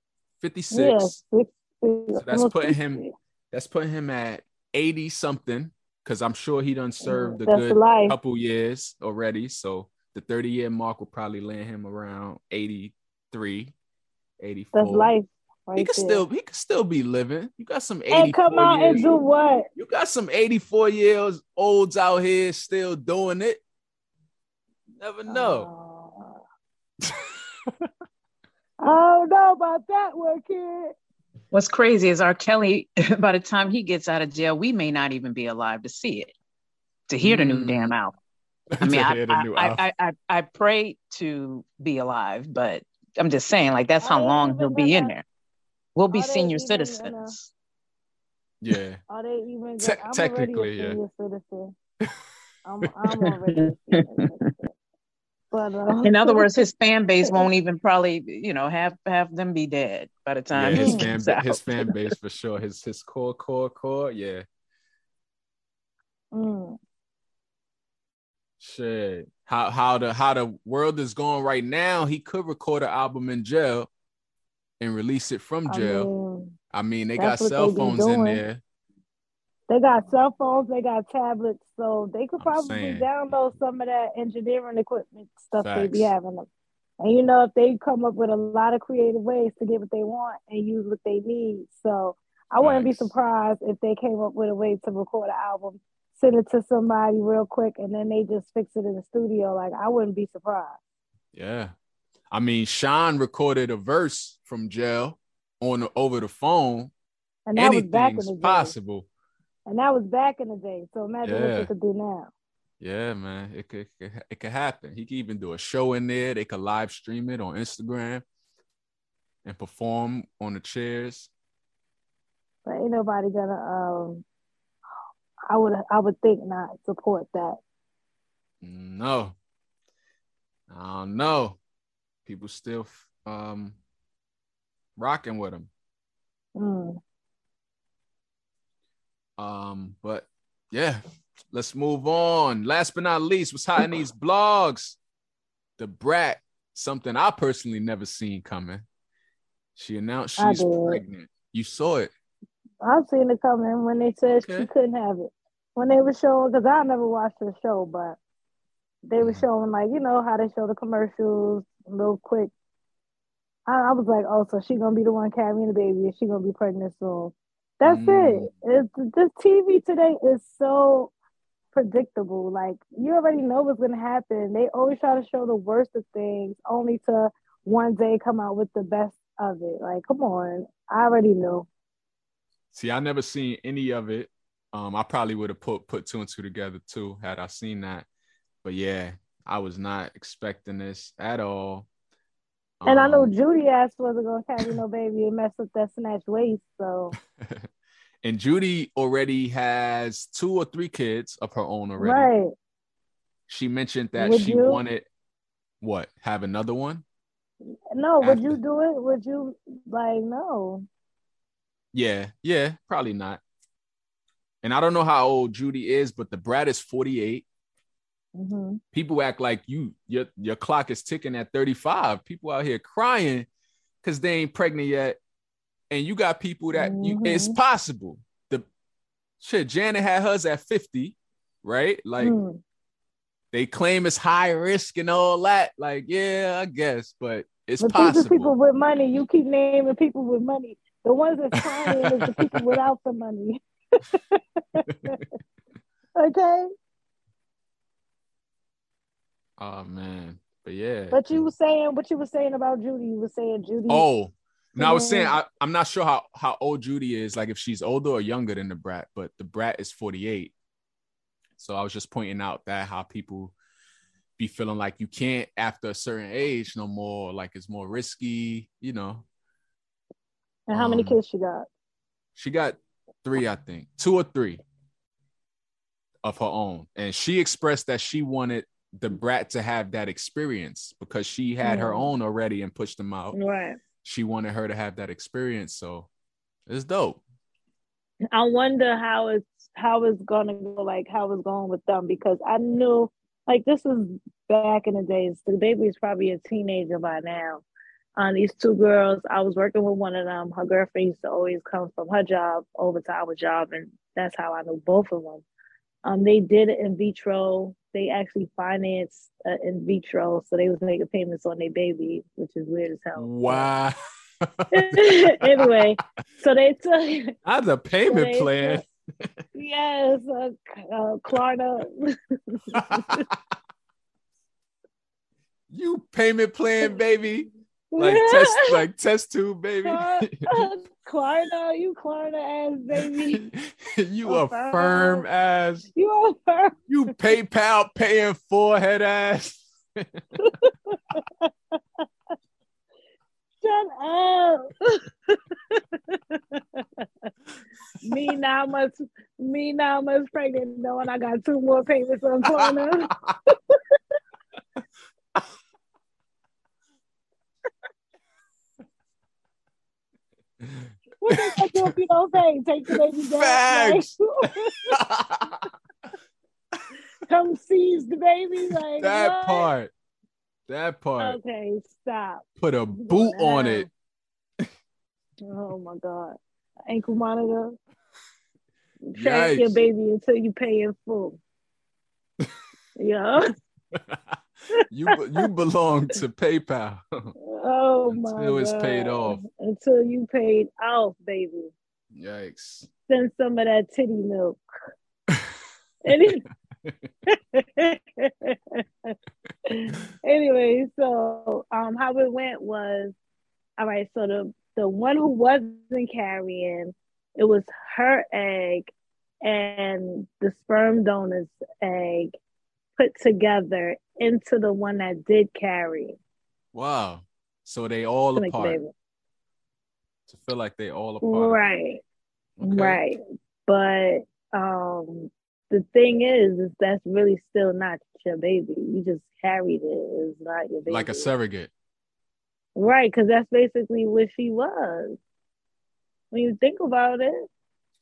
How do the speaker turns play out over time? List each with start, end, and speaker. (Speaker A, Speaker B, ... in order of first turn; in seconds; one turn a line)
Speaker A: 0.4-1.2
Speaker B: 0.7-3.1
Speaker A: 2.1-13.7
Speaker B: 7.0-8.2
Speaker A: 14.4-15.1
Speaker B: 14.7-16.2
Speaker A: 15.7-19.1
Speaker B: 18.1-19.7
Speaker A: 19.8-23.6
Speaker A: 25.0-25.7
Speaker B: 25.3-26.4
Speaker A: 27.1-27.9
Speaker B: 28.8-30.9
Speaker C: 31.5-36.3
Speaker C: 37.1-38.2
Speaker A: 37.2-37.9
Speaker A: 38.7-39.8
Speaker C: 38.8-45.2
Speaker B: 44.0-45.1
Speaker C: 45.9-47.5
Speaker B: 46.1-47.3
Speaker A: 48.6-49.0
Speaker B: 49.1-51.7
Speaker A: 49.8-51.0
Speaker B: 52.6-54.5
Speaker B: 55.5-56.4
Speaker C: 56.0-62.1
Speaker A: 60.5-64.5
Speaker B: 60.7-61.0
Speaker B: 66.3-66.8
Speaker A: 68.6-73.9
Speaker A: 74.8-76.1
Speaker B: 75.7-76.5
Speaker A: 76.7-78.6
Speaker B: 77.2-78.4
Speaker B: 79.7-86.5
Speaker A: 82.4-83.1
Speaker A: 85.6-86.1
Speaker B: 87.0-100.8
Speaker A: 92.6-93.1
Speaker A: 101.3-101.7
Speaker A: 102.3-106.9
Speaker B: 107.5-108.7
Speaker A: 107.5-109.1
Speaker B: 109.7-112.3
Speaker A: 111.2-111.7
Speaker A: 112.8-118.2
Speaker A: 119.4-121.3
Speaker B: 122.6-124.2
Speaker B: 125.5-127.6
Speaker A: 128.6-129.3
Speaker A: 130.7-131.6
Speaker A: 132.2-133.8
Speaker A: 134.9-135.7
Speaker B: 136.6-137.0
Speaker A: 139.4-145.0
Speaker A: 145.8-148.8
Speaker A: 149.8-152.1
Speaker B: 150.4-151.0
Speaker B: 152.8-158.2
Speaker A: 154.3-154.7
Speaker B: 159.1-162.5
Speaker A: 159.2-159.4
Speaker B: 163.7-171.1
Speaker A: 167.8-168.5
Speaker B: 171.7-181.7
Speaker A: 182.7-188.1
Speaker A: 188.6-191.9
Speaker A: 192.8-193.3
Speaker B: 192.8-197.1
Speaker A: 197.4-197.7
Speaker A: 198.2-202.3
Speaker B: 202.0-202.5
Speaker A: 203.5-205.1
Speaker B: 204.2-204.8
Speaker A: 205.8-207.0
Speaker B: 207.9-210.8
Speaker A: 208.2-208.6
Speaker A: 211.9-213.4
Speaker A: 214.6-217.4
Speaker B: 218.3-218.8
Speaker A: 218.9-223.5
Speaker A: 224.0-225.2
Speaker A: 225.9-228.7
Speaker B: 226.7-227.6
Speaker A: 229.4-232.3
Speaker B: 232.2-232.6
Speaker A: 233.5-238.5
Speaker B: 237.8-245.2
Speaker A: 241.6-242.8
Speaker A: 244.9-245.2
Speaker B: 246.2-246.7
Speaker A: 249.6-251.5
Speaker B: 251.1-254.1
Speaker A: 253.9-260.5
Speaker B: 254.8-255.3
Speaker A: 261.6-263.5
Speaker A: 264.4-269.2
Speaker B: 270.7-271.7
Speaker A: 270.7-271.2
Speaker A: 272.3-274.6
Speaker A: 276.2-283.4
Speaker B: 281.6-282.1
Speaker B: 283.3-283.8
Speaker A: 284.0-286.1
Speaker A: 286.7-287.2
Speaker B: 288.3-297.6
Speaker B: 298.2-305.4
Speaker B: 306.0-313.7
Speaker A: 313.1-313.9
Speaker A: 314.6-315.8
Speaker B: 314.7-317.3
Speaker A: 317.4-318.9
Speaker B: 318.1-318.8
Speaker B: 319.5-323.3
Speaker A: 322.7-323.4
Speaker A: 325.7-330.7
Speaker B: 327.9-328.8
Speaker B: 329.8-333.4
Speaker A: 333.0-335.9
Speaker B: 334.2-335.3
Speaker B: 335.9-336.8
Speaker A: 336.9-340.2
Speaker B: 340.4-341.5
Speaker B: 343.6-347.0
Speaker B: 348.0-353.8
Speaker A: 352.6-353.3
Speaker A: 360.6-361.9
Speaker B: 361.2-364.9
Speaker A: 362.9-364.1
Speaker A: 364.9-365.6
Speaker B: 367.3-369.7
Speaker A: 369.0-369.9
Speaker A: 370.7-371.4
Speaker B: 371.2-373.9
Speaker A: 372.6-373.9
Speaker B: 375.4-376.4
Speaker B: 376.9-377.8
Speaker B: 379.1-381.4
Speaker A: 379.1-379.8
Speaker B: 382.9-383.5
Speaker A: 383.9-384.4
Speaker A: 384.9-387.3
Speaker B: 387.5-391.7
Speaker A: 388.1-389.4
Speaker A: 392.1-392.9
Speaker B: 393.1-394.6
Speaker B: 396.1-396.4
Speaker B: 397.3-399.1
Speaker B: 399.7-403.1
Speaker B: 403.8-408.9
Speaker B: 409.4-412.3
Speaker B: 413.0-416.2
Speaker A: 416.7-418.8
Speaker B: 418.4-418.9
Speaker A: 420.3-421.6
Speaker B: 421.2-422.0
Speaker A: 422.6-423.0
Speaker B: 422.6-431.3
Speaker A: 430.9-431.7
Speaker B: 432.8-435.2
Speaker B: 436.3-437.5